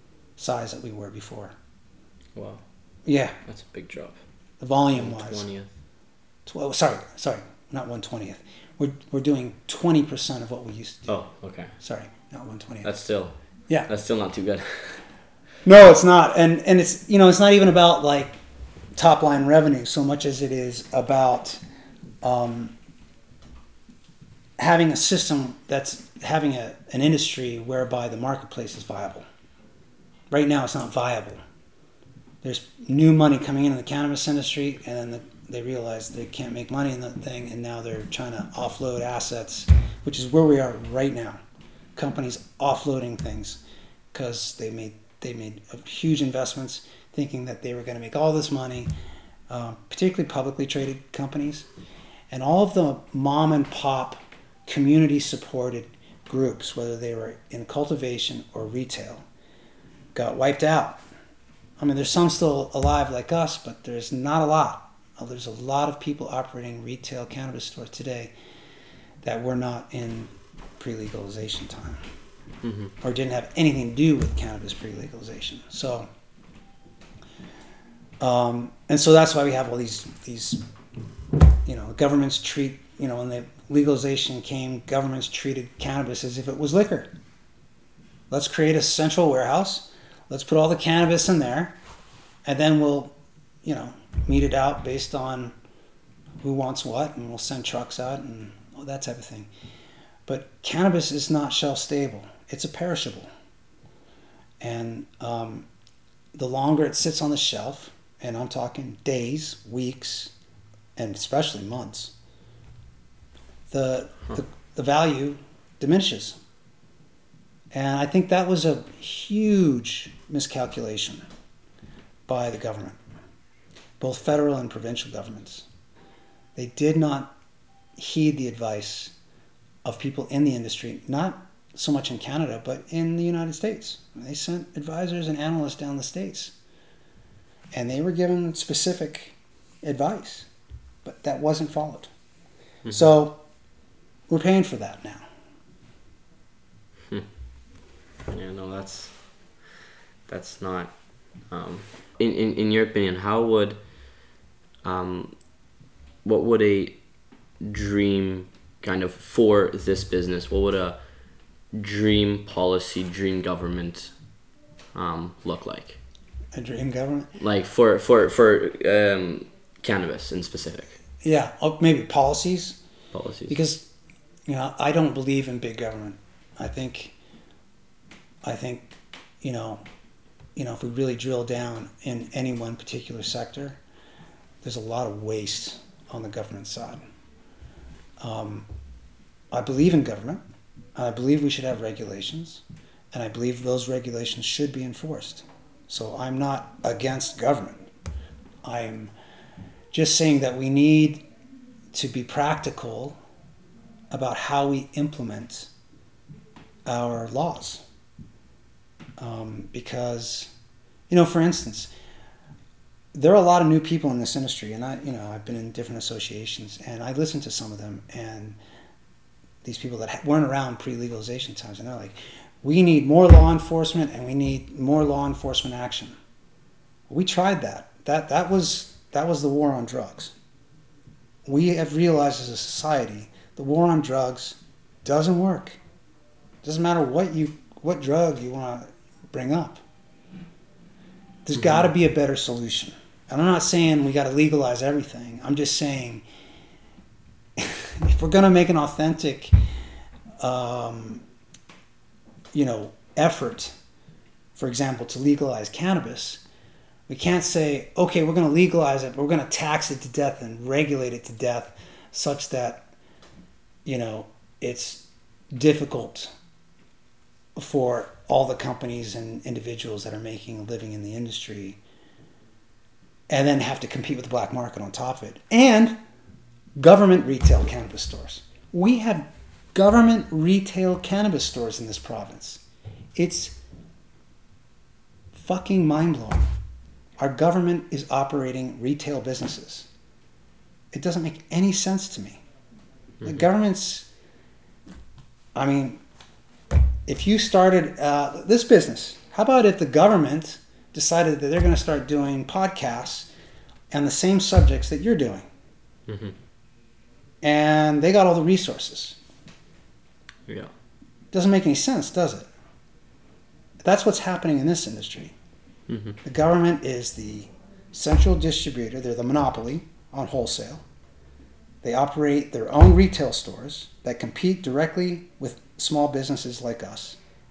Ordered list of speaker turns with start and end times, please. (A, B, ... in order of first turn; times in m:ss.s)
0:00.4-0:01.5 A
0:02.3-0:02.6 B
0:03.0-0:03.4 A
0:03.4-0:04.2 B
0:04.6-0:05.5 A
0:04.9-0:05.7 B
0:06.4-0:11.1 A
0:11.1-0:11.7 B
0:11.8-0:12.9 A
0:12.8-0:13.4 B
0:13.9-0:15.0 B
0:15.6-0:18.4 A
0:19.0-0:21.6 A
0:22.2-0:22.7 A
0:24.6-0:29.2 A
0:30.3-0:31.4 A
0:32.4-0:41.4 A
0:42.0-0:43.6 A
0:44.1-0:48.9 A
0:49.5-0:51.7 A
0:52.3-0:59.2 A
1:00.1-1:01.0 A
1:01.8-1:08.3 A
1:09.2-1:12.0 A
1:12.6-1:12.9 B
1:13.0-1:16.1 A
1:18.2-1:20.6 A
1:21.6-1:27.1 A
1:28.3-1:31.8 A
1:32.4-1:35.5 A
1:36.4-1:39.5 A
1:40.3-1:43.3 A
1:44.6-1:45.7 A
1:46.3-1:50.3 A
1:51.0-1:52.1 A
1:53.7-1:56.4 A
1:57.7-2:01.2 A
2:02.3-2:03.0 A
2:04.0-2:05.7 A
2:06.6-2:07.3 A
2:08.0-2:09.1 A
2:09.8-2:16.5 A
2:17.7-2:20.5 A
2:21.0-2:22.1 A
2:22.9-2:23.4 A
2:24.3-2:25.2 A
2:28.3-2:29.1 B
2:30.3-2:30.9 B
2:31.5-2:33.8 B
2:34.8-2:35.3 B
2:36.2-2:37.0 B
2:37.6-2:41.0 B
2:41.7-2:44.1 B
2:44.9-2:46.0 B
2:46.5-2:47.3 A
2:47.4-2:51.0 B
2:51.2-2:52.8 A
2:53.1-2:53.5 B
2:53.5-2:53.9 A
2:54.5-2:57.1 A
2:58.4-2:59.8 A
3:00.6-3:03.8 A
3:04.6-3:07.0 A
3:08.2-3:08.6 A
3:09.5-3:10.4 A
3:11.0-3:17.9 A
3:18.6-3:19.1 A
3:19.9-3:21.2 A
3:21.9-3:23.2 A
3:24.1-3:25.7 A
3:26.8-3:27.8 A
3:29.2-3:30.5 A
3:31.1-3:31.9 A
3:33.1-3:38.6 A
3:39.6-3:46.1 A
3:47.1-3:50.3 A
3:51.4-3:55.8 A
3:56.6-3:59.8 A
4:01.4-4:06.2 A
4:07.6-4:09.5 A
4:10.4-4:11.2 A
4:12.5-4:13.7 A
4:14.6-4:16.4 A
4:17.1-4:22.8 A
4:23.8-4:26.3 A
4:27.6-4:31.8 A
4:33.3-4:36.0 A
4:36.8-4:42.6 A
4:43.2-4:43.6 A
4:45.3-4:46.5 A
4:47.2-4:49.9 A
4:50.9-4:52.4 A
4:53.2-4:54.1 A
4:55.5-4:56.0 A
4:57.1-5:03.3 A
5:03.9-5:05.4 A
5:06.1-5:06.3 B
5:07.4-5:09.2 A
5:11.3-5:12.5 A
5:13.8-5:15.3 A
5:15.9-5:16.2 B
5:16.2-5:20.8 A
5:21.8-5:27.2 A